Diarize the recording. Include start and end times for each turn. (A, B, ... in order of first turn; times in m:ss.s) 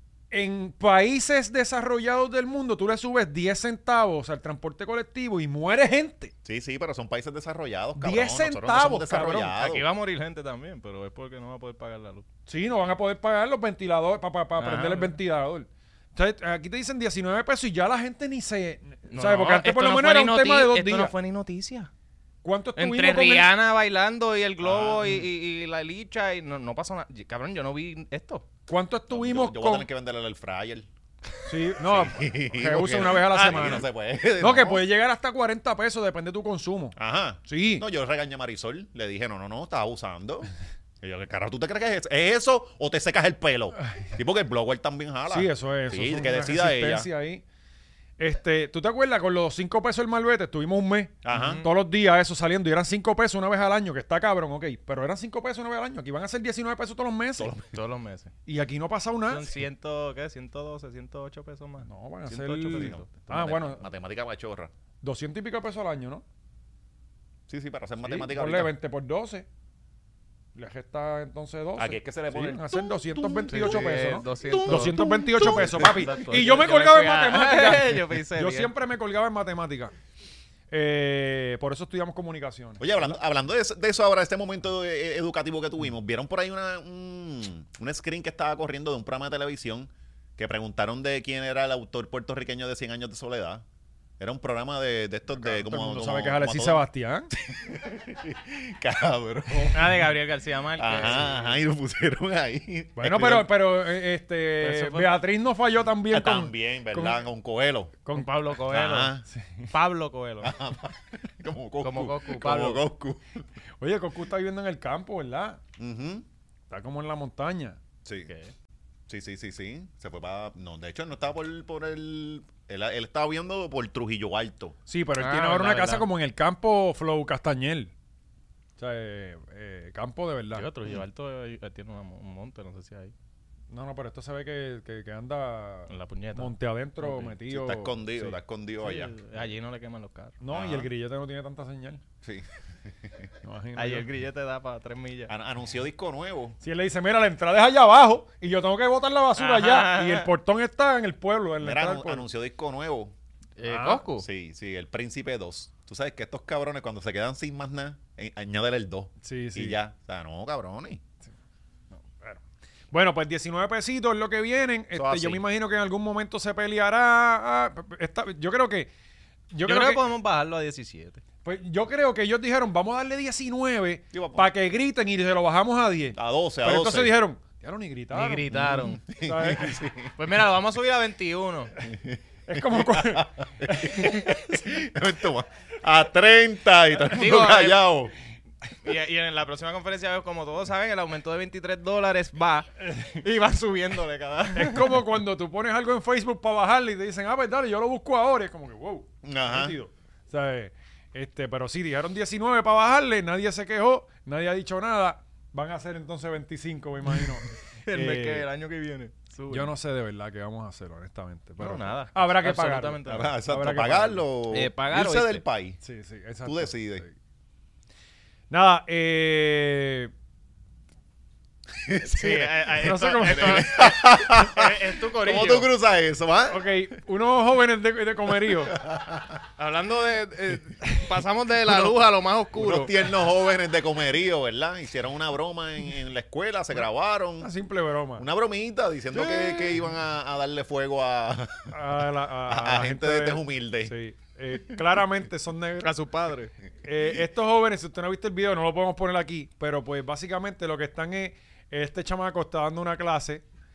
0:00.3-0:06.3 A
0:06.4-0:09.8 B
0:08.0-0:09.5 A
0:09.6-0:12.2 C
0:12.5-0:21.1 A
0:14.6-0:15.2 C
0:19.1-0:21.9 C
0:22.4-0:23.5 A
0:22.8-0:28.4 C
0:24.6-0:25.2 B
0:28.7-0:29.9 A
0:29.1-0:30.9 B
0:31.4-0:33.8 A
0:31.8-0:34.8 B
0:33.3-0:33.8 C
0:34.4-0:37.8 A
0:37.0-0:40.5 B
0:41.0-0:47.1 B
0:45.3-0:47.4 A
0:48.2-0:57.5 A
0:51.2-0:51.6 B
0:51.3-0:51.7 C
0:57.4-0:57.8 B
0:57.6-0:58.3 C
0:58.4-0:59.5 A
0:59.3-1:03.0 C
1:01.8-1:03.8 A
1:02.3-1:04.7 B
1:05.0-1:06.2 A
1:07.5-1:08.7 B
1:08.0-1:09.5 A
1:10.5-1:19.9 A
1:11.8-1:16.1 B
1:13.5-1:18.7 C
1:20.7-1:23.2 A
1:22.8-1:33.6 B
1:34.2-1:40.0 B
1:35.3-1:37.3 A
1:39.7-1:41.6 C
1:40.8-1:43.5 B
1:43.0-1:47.2 A
1:44.6-1:45.2 C
1:46.1-1:48.0 B
1:48.0-1:48.3 A
1:48.1-1:49.1 C
1:48.6-1:49.2 B
1:49.3-1:49.7 A
1:49.7-1:50.5 C
1:50.4-1:53.4 B
1:51.8-1:52.8 C
1:53.8-1:55.6 A
1:55.8-1:56.2 B
1:56.7-1:57.8 A
1:58.0-1:58.3 B
1:58.3-1:58.5 C
1:59.1-2:04.8 B
2:04.9-2:07.9 A
2:05.2-2:06.1 C
2:08.8-2:10.7 A
2:10.5-2:13.1 C
2:13.7-2:18.4 A
2:15.9-2:17.4 C
2:17.5-2:19.1 B
2:18.8-2:20.3 C
2:20.4-2:22.0 A
2:20.5-2:20.9 B
2:22.2-2:23.3 B
2:23.4-2:24.0 A
2:23.8-2:25.3 C
2:25.3-2:26.6 B
2:26.6-2:32.3 A
2:29.4-2:30.3 C
2:31.6-2:33.1 B
2:33.6-2:34.2 C
2:33.6-2:34.0 A
2:34.2-2:41.0 B
2:39.2-2:39.8 A
2:41.9-2:48.9 A
2:44.9-2:45.4 B
2:49.5-2:50.0 A
2:49.6-2:51.2 C
2:51.4-2:58.4 A
2:54.1-2:54.5 B
2:56.1-2:57.2 B
2:58.1-2:59.0 C
2:58.5-3:00.1 B
2:59.2-2:59.8 A
3:00.2-3:01.7 C
3:01.8-3:08.1 B
3:02.5-3:04.7 A
3:07.0-3:07.8 C
3:08.8-3:15.0 C
3:12.8-3:13.2 A
3:14.5-3:28.4 A
3:19.2-3:19.8 B
3:27.8-3:29.7 C
3:29.5-3:34.2 A
3:31.6-3:33.3 C
3:33.0-3:35.8 B
3:34.5-3:35.4 C
3:35.8-3:37.1 A
3:36.4-3:37.0 B
3:38.5-3:40.1 A
3:41.8-3:42.5 B
3:42.0-3:45.7 C
3:42.8-3:43.7 A
3:43.2-3:46.6 B
3:46.5-3:48.8 A
3:48.5-3:49.4 B
3:49.6-3:52.9 C
3:52.5-3:57.5 B
3:57.4-3:58.2 A
3:58.2-4:03.9 B
3:59.2-3:59.7 C
4:01.7-4:05.9 A
4:05.8-4:06.5 C
4:06.8-4:13.4 A